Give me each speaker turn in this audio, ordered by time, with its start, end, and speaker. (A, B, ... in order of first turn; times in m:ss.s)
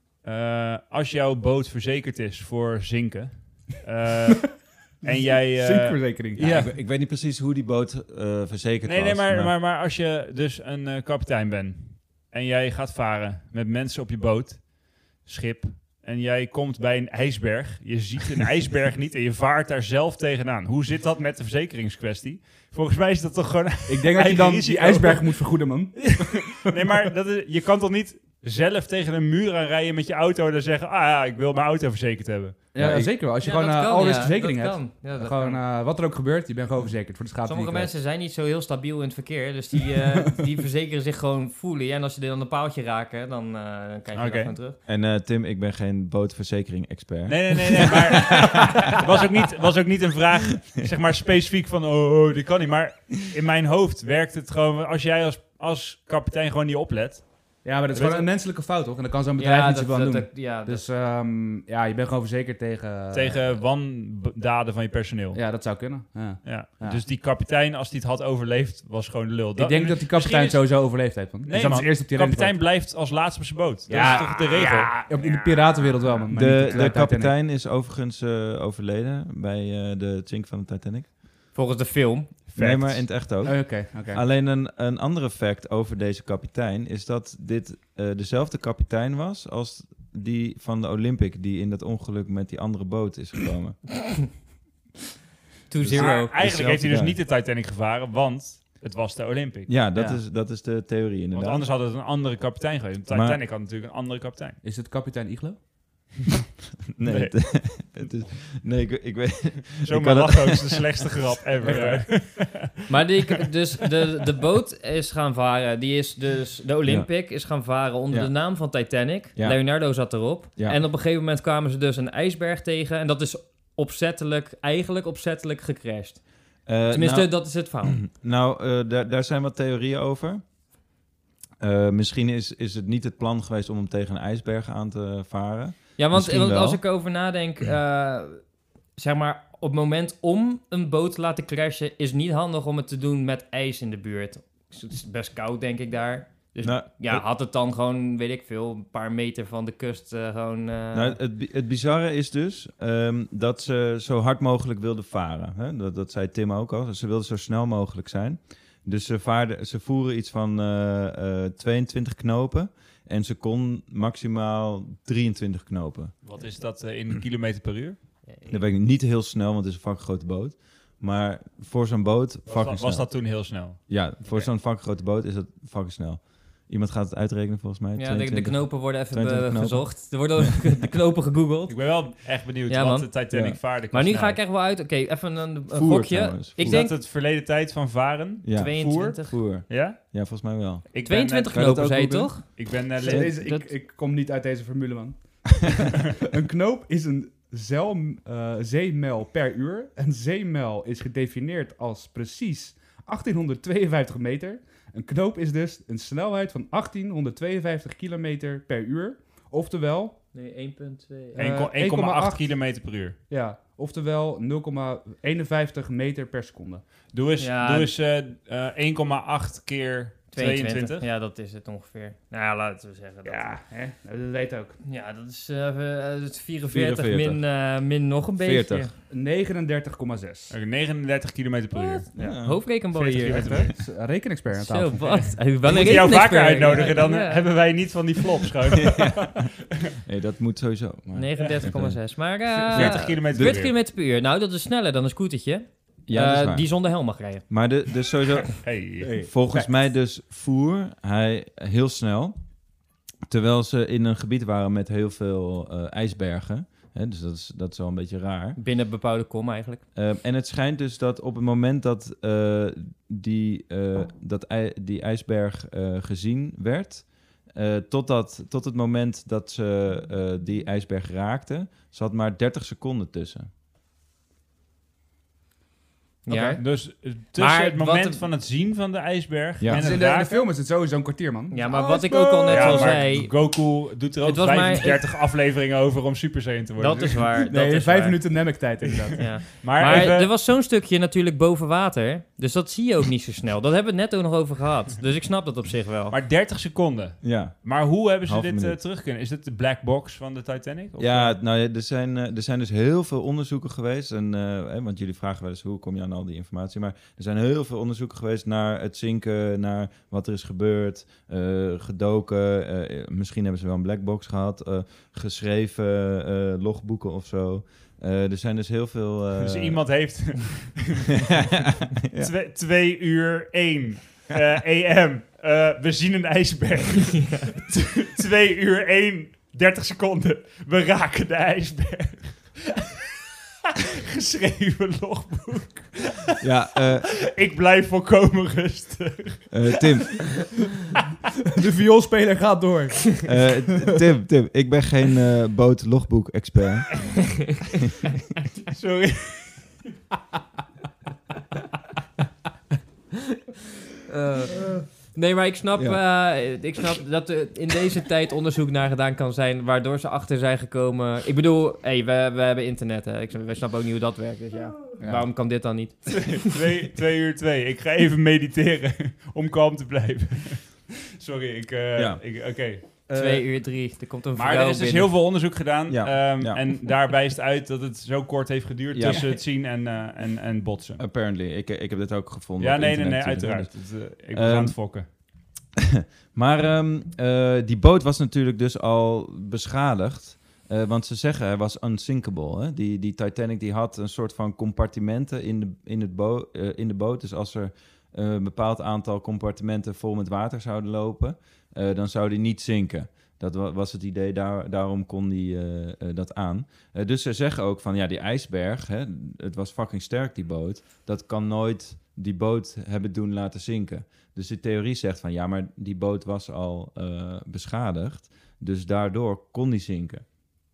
0:00.2-0:06.7 A
0:05.0-0:06.4 B
0:06.4-0:09.5 C
0:08.8-0:25.4 A
0:23.9-0:26.6 B
0:26.0-0:32.6 A
0:32.7-0:37.9 B
0:32.8-0:33.1 C
0:33.4-0:35.6 D
0:37.4-0:44.8 D
0:44.1-0:44.5 A
0:44.8-0:49.0 C
0:47.3-0:58.3 A
0:57.6-1:03.5 B
0:59.4-1:00.8 D
1:03.1-1:05.4 A
1:05.3-1:07.0 B
1:06.4-1:15.2 A
1:09.6-1:12.6 B
1:13.9-1:17.3 B
1:13.9-1:14.9 D
1:16.3-1:21.1 C
1:21.5-1:22.3 D
1:22.5-1:23.1 A
1:22.6-1:33.8 C
1:23.4-1:24.2 B
1:35.7-1:36.4 D
1:35.8-1:37.2 C
1:35.9-1:39.7 A
1:39.7-1:41.6 C
1:39.9-1:40.2 B
1:41.3-1:44.6 A
1:43.1-1:43.4 C
1:44.6-1:45.6 B
1:47.0-1:52.1 C
1:47.0-1:47.4 A
1:49.8-1:52.7 A
1:51.6-1:52.0 B
1:52.9-2:06.2 D
1:59.3-1:59.6 C
2:06.6-2:10.4 C
2:06.9-2:08.0 D
2:11.6-2:16.8 C
2:16.0-2:18.4 D
2:19.0-2:31.2 D
2:26.6-2:27.2 C
2:30.9-2:46.1 C
2:46.2-2:48.0 A
2:48.4-2:53.2 C
2:52.5-2:54.5 A
2:53.8-3:00.7 C
2:58.0-3:01.8 D
3:01.7-3:04.4 A
3:02.7-3:03.2 D
3:03.3-3:03.6 C
3:03.9-3:07.0 D
3:05.7-3:06.8 C
3:06.6-3:10.0 A
3:08.4-3:10.9 C
3:08.5-3:09.4 D
3:10.9-3:11.6 A
3:11.0-3:12.6 D
3:11.4-3:12.4 C
3:12.5-3:13.3 A
3:13.0-3:30.2 B
3:13.3-3:13.7 D
3:30.3-3:31.4 D
3:31.3-3:32.6 B
3:31.4-3:33.2 A
3:33.3-3:36.8 B
3:37.1-3:41.1 A
3:37.4-3:37.9 D
3:40.3-3:43.6 D
3:43.2-3:44.7 B
3:44.8-3:48.9 D
3:46.7-3:47.4 C
3:48.4-3:48.9 C
3:49.1-3:50.5 B
3:50.5-3:52.3 A
3:51.7-3:53.7 D
3:52.2-3:52.6 C
3:52.9-3:53.7 A
3:53.3-3:55.4 B
3:54.5-3:57.5 D
3:55.6-3:59.5 A
3:58.8-3:59.5 C
4:00.0-4:02.1 C
4:01.1-4:07.4 D
4:02.7-4:03.7 A
4:02.7-4:03.6 C
4:06.1-4:06.7 C
4:07.5-4:12.4 C
4:08.6-4:09.1 A
4:09.0-4:09.7 B
4:13.3-4:18.6 C
4:18.6-4:19.8 D
4:19.9-4:33.5 C
4:36.2-4:36.6 D
4:36.3-4:40.5 A
4:37.4-4:38.2 D
4:39.6-4:39.9 C
4:39.7-4:43.0 B
4:41.5-4:43.5 D
4:41.8-4:47.2 A
4:44.2-4:45.0 D
4:46.8-4:48.6 D
4:47.1-4:49.4 B
4:49.0-4:50.3 A
4:49.2-4:56.2 D
4:56.1-5:01.4 A
4:57.2-4:58.8 C
5:01.0-5:19.8 C
5:19.4-5:21.5 A
5:21.3-5:22.3 C
5:22.1-5:33.1 A
5:33.8-5:36.4 A
5:36.4-5:37.1 C
5:37.1-5:40.2 A
5:39.5-5:40.6 C
5:41.5-5:43.3 B
5:43.2-5:47.1 C
5:48.7-5:49.8 A
5:54.1-6:06.5 D
5:55.8-5:56.0 C
6:05.0-6:05.2 B
6:06.1-6:12.8 A
6:12.0-6:12.2 C
6:13.1-6:13.4 C
6:13.1-6:15.1 D
6:14.4-6:21.0 A
6:15.9-6:16.6 C
6:18.9-6:19.3 C
6:21.0-6:24.8 C
6:22.6-6:25.0 A
6:25.9-7:00.2 C